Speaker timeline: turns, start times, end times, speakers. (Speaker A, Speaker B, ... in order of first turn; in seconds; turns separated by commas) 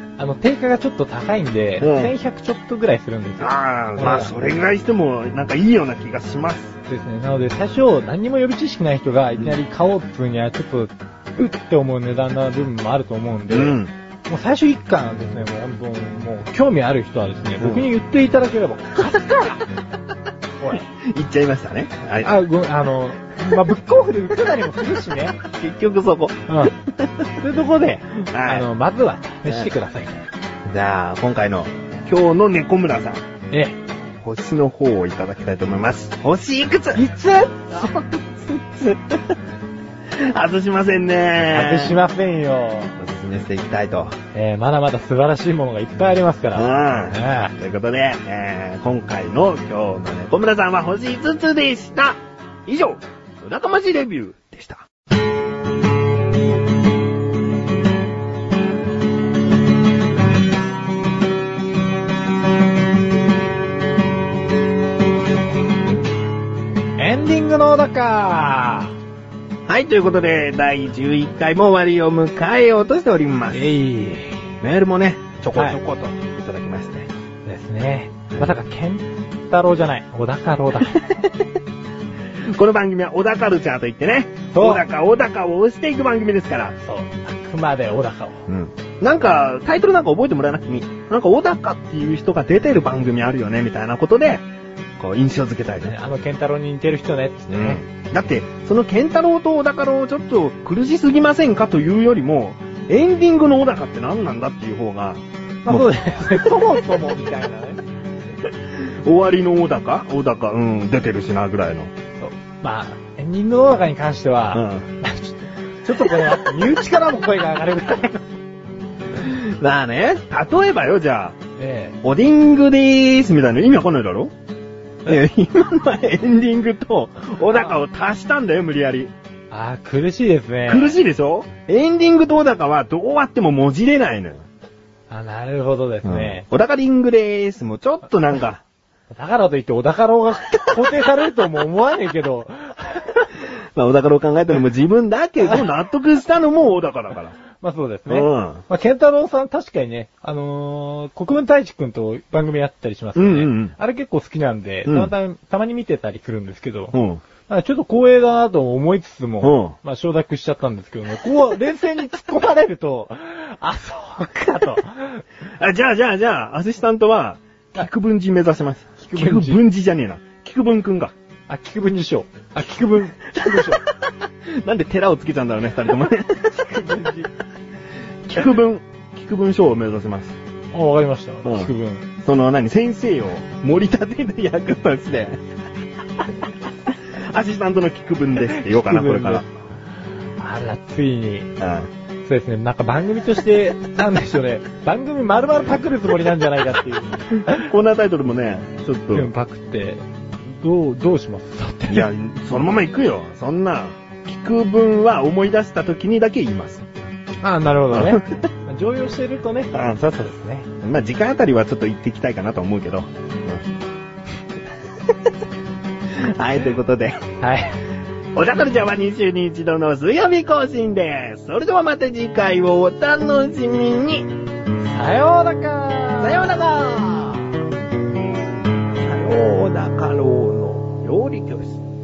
Speaker A: 0.2-4.4, Speaker B: 1.8-2.1, Speaker B: 3.4-6.7, Speaker A: 6.9-19.6, Speaker B: 13.5-13.9, Speaker B: 17.6-17.9, Speaker B: 20.8-22.3, Speaker A: 22.2-25.4, Speaker B: 25.4-27.3, Speaker A: 26.5-26.7, Speaker A: 27.4-30.2, Speaker B: 28.3-28.7, Speaker B: 30.6-33.2, Speaker A: 33.5-33.8, Speaker B: 34.2-37.0, Speaker A: 36.9-37.9, Speaker B: 37.7-39.4, Speaker B: 40.1-42.0, Speaker A: 41.4-43.0, Speaker B: 43.0-44.1, Speaker A: 44.3-47.5, Speaker B: 46.5-54.8, Speaker A: 67.0-68.9, Speaker B: 69.7-73.8, Speaker A: 73.5-74.5, Speaker B: 74.6-77.1, Speaker A: 75.5-75.8, Speaker A: 77.4-81.1, Speaker B: 82.4-86.7, Speaker A: 84.5-84.8, Speaker A: 86.8-88.5, Speaker B: 88.5-94.5, Speaker B: 95.0-95.9, Speaker A: 95.8-97.8, Speaker B: 97.5-105.9, Speaker A: 105.6-107.8, Speaker B: 108.5-111.9, Speaker A: 112.2-118.3, Speaker B: 114.5-114.8, Speaker B: 119.1-121.4, Speaker A: 121.6-122.0, Speaker B: 122.0-124.3, Speaker B: 125.0-129.1, Speaker A: 129.5-130.9, Speaker B: 130.7-134.4, Speaker A: 135.1-136.4, Speaker B: 136.0-138.6, Speaker A: 139.1-143.3, Speaker B: 143.8-147.4, Speaker A: 147.6-156.9, Speaker B: 148.1-148.6, Speaker B: 153.2-153.7, Speaker B: 154.9-155.1, Speaker B: 156.9-157.2, Speaker A: 157.4-165.2, Speaker B: 159.4-159.7, Speaker B: 165.6-171.1, Speaker A: 169.0-169.6, Speaker A: 171.5-173.8, Speaker B: 173.3-173.7, Speaker B: 174.5-176.6, Speaker A: 176.5-177.3, Speaker B: 178.3-180.3, Speaker A: 180.7-182.1, Speaker B: 181.4-181.7, Speaker B: 182.2-185.4, Speaker B: 186.9-189.5, Speaker A: 188.4-189.4, Speaker A: 190.4-191.5, Speaker B: 191.6-191.9, Speaker A: 192.2-197.7, Speaker B: 197.3-199.3, Speaker A: 199.1-202.1, Speaker B: 201.9-206.8, Speaker A: 207.4-210.7, Speaker B: 207.9-208.4, Speaker B: 209.7-210.0, Speaker B: 210.7-213.7, Speaker B: 216.1-217.2, Speaker A: 217.4-217.8, Speaker B: 218.3-224.3, Speaker A: 224.9-226.5, Speaker B: 226.2-227.5, Speaker B: 228.9-231.8